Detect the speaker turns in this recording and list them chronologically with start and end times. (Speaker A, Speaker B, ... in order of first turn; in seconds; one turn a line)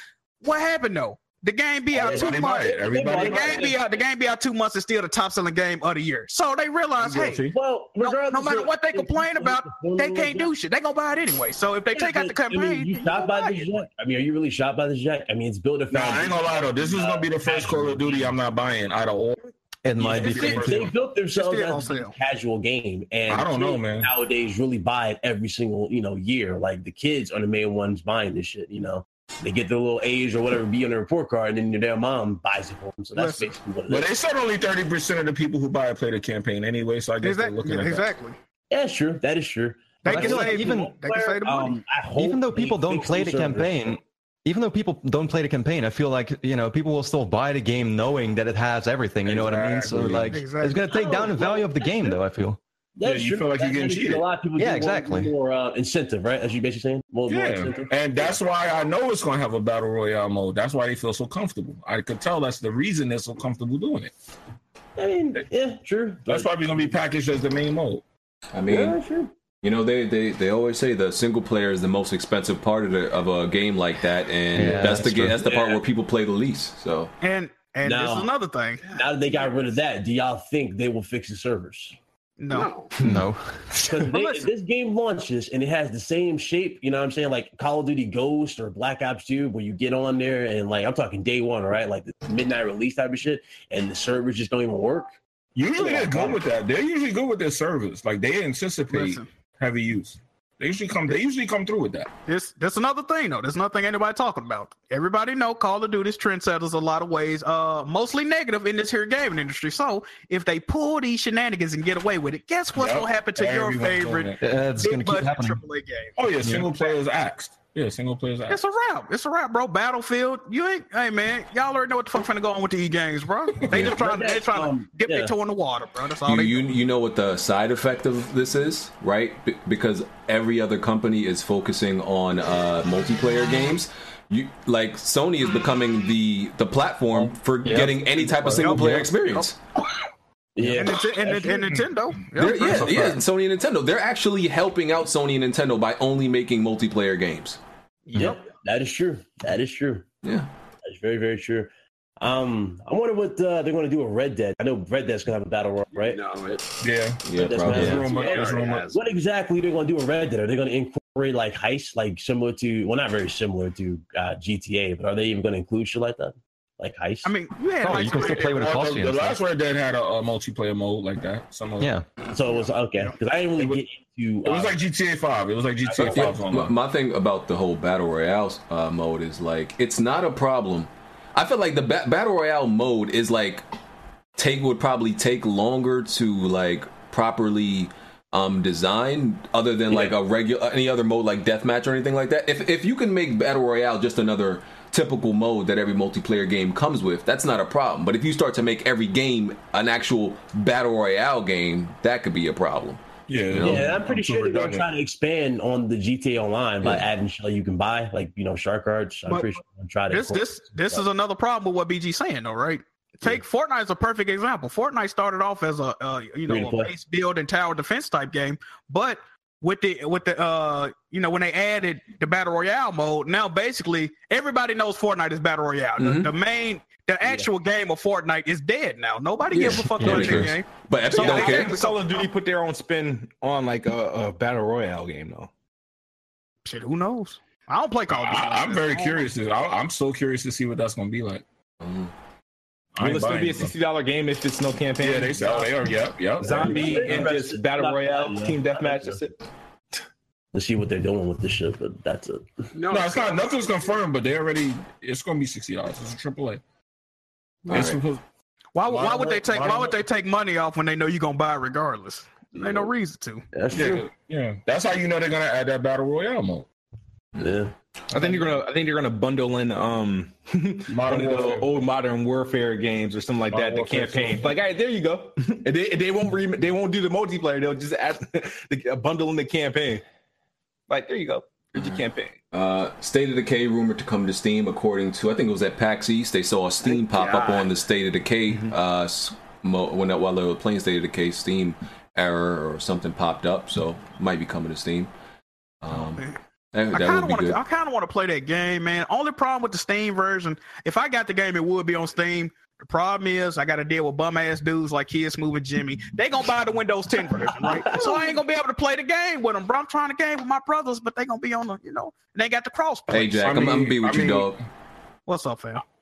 Speaker A: 0.4-7.5
Speaker B: 1.9-3.8
Speaker C: 1.9-3.8
Speaker B: 7.0-10.5
Speaker A: 8.0-13.8
Speaker B: 11.9-18.4
Speaker C: 15.9-19.4
Speaker D: 19.9-20.8
Speaker C: 20.0-20.9
Speaker A: 20.1-20.7
Speaker B: 20.2-34.1
Speaker A: 21.3-22.1
Speaker C: 23.3-24.1
Speaker A: 33.2-33.5
Speaker C: 33.9-38.1
Speaker A: 37.2-38.4
Speaker B: 38.7-44.0
Speaker A: 40.0-41.8
Speaker D: 40.1-40.9
Speaker D: 42.1-52.6
Speaker C: 49.2-50.4
Speaker A: 50.3-51.0
Speaker B: 50.9-52.2
Speaker B: 53.0-58.4
Speaker C: 53.0-54.3
Speaker D: 54.6-55.3
Speaker C: 57.3-64.1
Speaker B: 65.0-66.5
Speaker C: 66.3-68.0
Speaker E: 68.5-69.0
Speaker B: 68.7-69.3
Speaker E: 69.6-77.1
Speaker D: 74.5-75.5
Speaker B: 75.4-75.8
Speaker A: 77.2-78.8
Speaker B: 77.8-78.3
Speaker F: 78.8-79.7
Speaker B: 78.9-82.0
Speaker A: 82.4-82.7
Speaker F: 82.5-82.9
Speaker D: 83.0-83.6
Speaker A: 83.8-84.5
Speaker B: 83.8-95.1
Speaker C: 95.5-102.1
Speaker B: 95.8-96.4
Speaker A: 98.9-99.3
Speaker A: 102.3-116.2
Speaker C: 112.8-114.4
Speaker D: 114.4-115.6
Speaker C: 116.2-118.6
Speaker D: 116.4-116.7
Speaker A: 118.5-126.7
Speaker B: 123.8-125.3
Speaker E: 126.2-139.6
Speaker D: 137.2-139.1
Speaker A: 138.6-139.5
Speaker B: 140.6-141.5
Speaker A: 140.8-143.2
Speaker E: 142.4-147.6
Speaker A: 148.1-148.4
Speaker B: 148.1-150.1
Speaker E: 150.2-150.5
Speaker B: 150.8-156.2
Speaker F: 156.0-156.7
Speaker C: 156.8-158.9
Speaker E: 157.2-158.0
Speaker B: 157.4-167.3
Speaker D: 157.7-158.0
Speaker F: 157.9-159.0
Speaker A: 167.2-168.7
Speaker D: 167.8-169.4
Speaker C: 167.9-171.9
Speaker D: 171.8-172.1
Speaker B: 172.3-174.8
Speaker C: 174.4-176.8
Speaker B: 175.8-176.4
Speaker E: 176.0-183.6
Speaker E: 184.4-203.9
Speaker B: 189.9-190.2
Speaker C: 203.3-204.8
Speaker B: 203.6-211.1
Speaker A: 209.3-209.6
Speaker A: 210.1-232.3
Speaker B: 216.5-216.9
Speaker E: 226.0-226.3
Speaker B: 227.2-227.5
Speaker E: 229.5-231.8
Speaker D: 230.0-230.5
Speaker G: 230.0-230.4
Speaker C: 230.1-230.4
Speaker G: 231.1-235.5
Speaker A: 236.7-239.3
Speaker C: 238.1-241.4
Speaker E: 241.8-242.1
Speaker C: 242.9-243.7
Speaker G: 243.0-245.8
Speaker C: 245.0-247.3
Speaker G: 246.4-249.4
Speaker B: 246.4-249.2
Speaker B: 250.5-252.7
Speaker F: 252.7-253.9
Speaker C: 252.9-256.6
Speaker E: 257.7-258.0
Speaker C: 257.7-258.2
Speaker A: 258.8-263.4
Speaker C: 258.9-260.0
Speaker B: 262.6-262.9
Speaker B: 263.5-264.1
Speaker C: 263.7-266.7
Speaker B: 267.4-267.7
Speaker G: 268.1-280.0
Speaker C: 270.9-271.7
Speaker C: 273.5-274.6
Speaker G: 280.9-282.4
Speaker E: 281.8-295.1
Speaker F: 286.8-287.8
Speaker E: 295.8-297.6
Speaker A: 295.9-296.4
Speaker A: 296.9-313.7
Speaker B: 307.4-308.4
Speaker E: 313.1-314.6
Speaker C: 313.4-314.5
Speaker A: 315.3-315.8